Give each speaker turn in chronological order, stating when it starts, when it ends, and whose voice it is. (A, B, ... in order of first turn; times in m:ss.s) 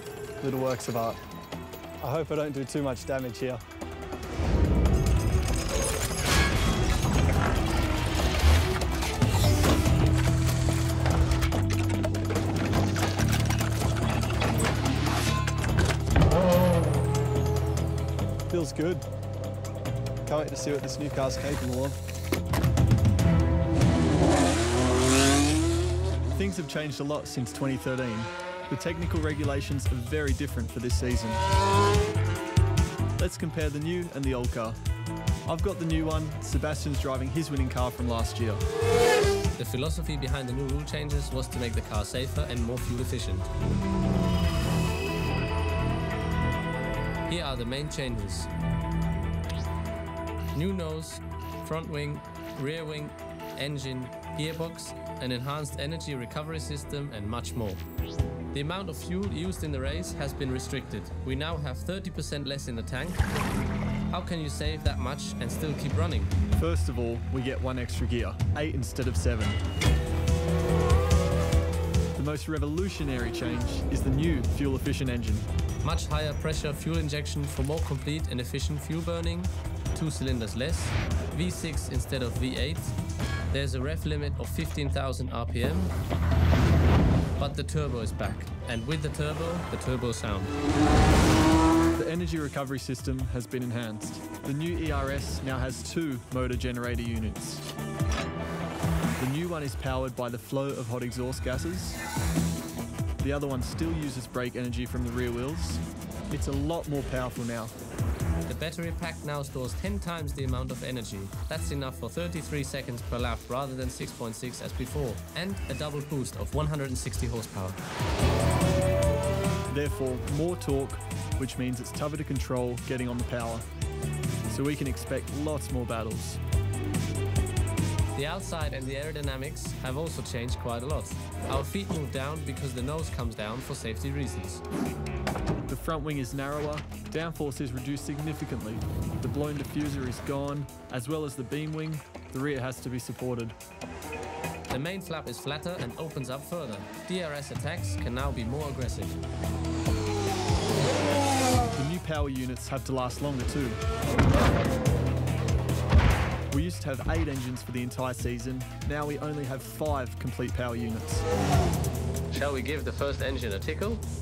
0:00.4-0:01.2 A
0:02.0-0:03.6 A
0:18.5-0:19.0 A
0:20.2-0:22.0 A
0:26.3-0:31.4 A
0:33.2-0:34.8 A
0:35.4-0:38.6 A
0:39.6-0:43.5 B
0:47.3-0:48.5 B
0:50.5-0:57.8 B
0:58.5-1:03.2 B
1:04.1-1:06.3 B
1:06.5-1:09.6 A
1:12.1-1:15.5 A
1:15.8-1:22.9 B
1:23.5-1:25.9 B
1:27.4-1:30.5 B
1:32.0-1:37.6 A
1:39.2-1:42.0 A
1:43.2-1:47.7 A
1:48.5-1:57.8 B
1:59.7-2:03.6 A
2:04.5-2:06.4 A
2:08.1-2:14.6 B
2:15.7-2:23.6 A
2:24.7-2:29.2 B
2:31.7-2:33.8 A
2:36.5-2:41.2 A
2:42.3-2:44.0 B